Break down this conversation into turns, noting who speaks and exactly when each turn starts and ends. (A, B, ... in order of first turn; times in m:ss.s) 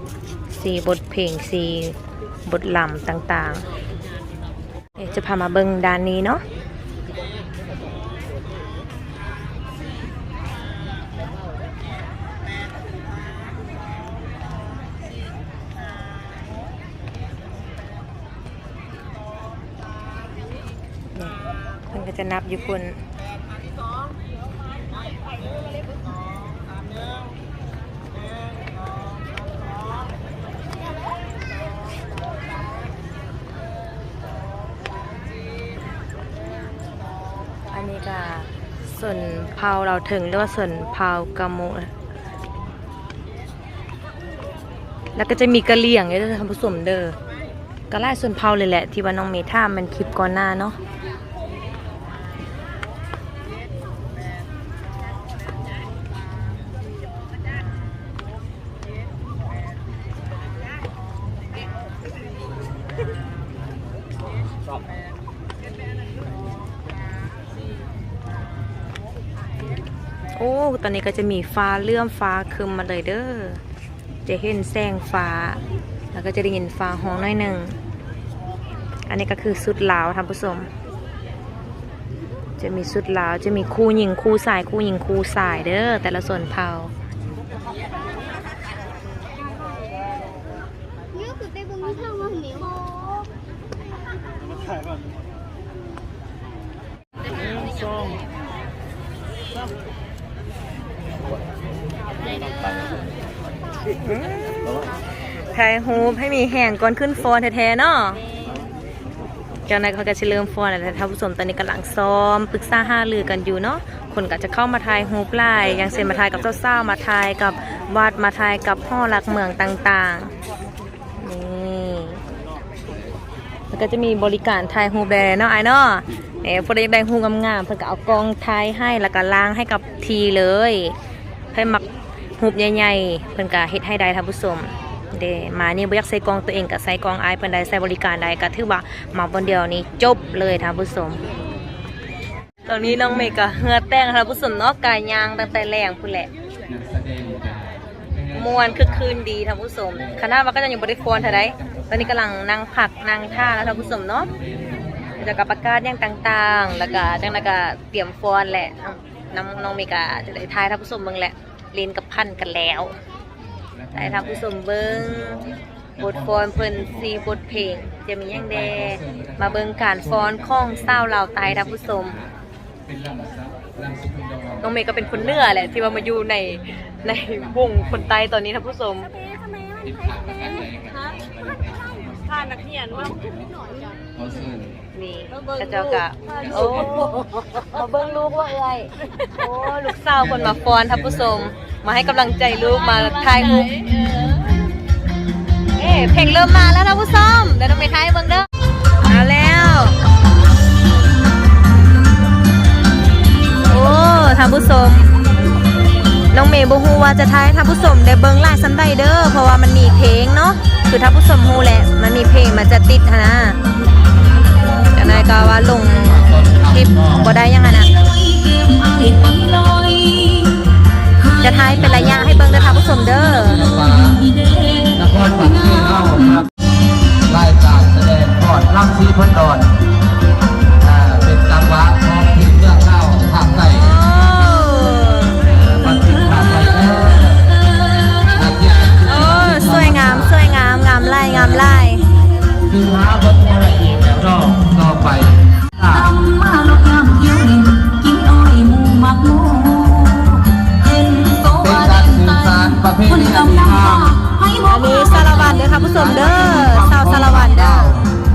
0:00.6-0:03.6 A
0:05.0-0:06.4 A
0:21.9-0:23.0 A
0:37.7-0:41.9 A
0:45.2-0:47.2 A
0:47.9-0:50.8 A
1:10.4-1:13.6 A
1:14.3-1:15.6 A
1:16.1-1:17.8 A
1:19.1-1:20.7 A
1:22.6-1:26.9 A
1:44.0-1:44.6 A
1:45.5-1:48.2 A
1:49.7-2:00.3 A
2:01.2-2:02.2 A
2:03.7-2:11.0 A
2:11.5-2:11.8 A
2:12.4-2:21.2 A
2:22.7-2:26.3 A
2:26.7-2:29.1 B
2:28.3-2:34.3 A
2:31.6-2:31.9 B
2:34.4-2:35.4 B
2:35.2-2:43.0 A
2:43.8-2:44.5 B
2:43.9-2:52.2 A
2:45.0-2:45.4 B
2:46.0-2:47.0 B
2:48.4-2:52.3 B
2:52.9-2:55.6 B
2:54.6-2:59.1 A
2:59.8-3:03.5 B
3:04.2-3:04.8 B
3:04.9-3:14.0 A
3:06.6-3:07.0 B
3:10.4-3:11.0 B
3:15.8-3:18.5 A
3:19.0-3:20.0 A
3:23.6-3:25.2 A
3:26.3-3:33.6 A
3:34.9-3:37.9 A
3:35.0-3:37.3 B
3:37.8-3:40.5 C
3:41.2-3:42.2 C
3:41.4-3:43.6 A
3:41.7-3:44.2 B
3:43.4-3:46.5 C
3:45.0-3:46.5 B
3:47.3-3:49.7 B
3:50.8-3:53.9 B
3:53.7-3:55.4 A
3:55.5-3:57.4 B
3:55.6-3:58.4 C
3:58.4-4:00.4 B
3:59.1-4:02.0 A
4:02.7-4:06.1 B
4:05.8-4:15.8 C
4:11.6-4:14.2 B
4:14.7-4:17.9 A
4:15.4-4:18.1 B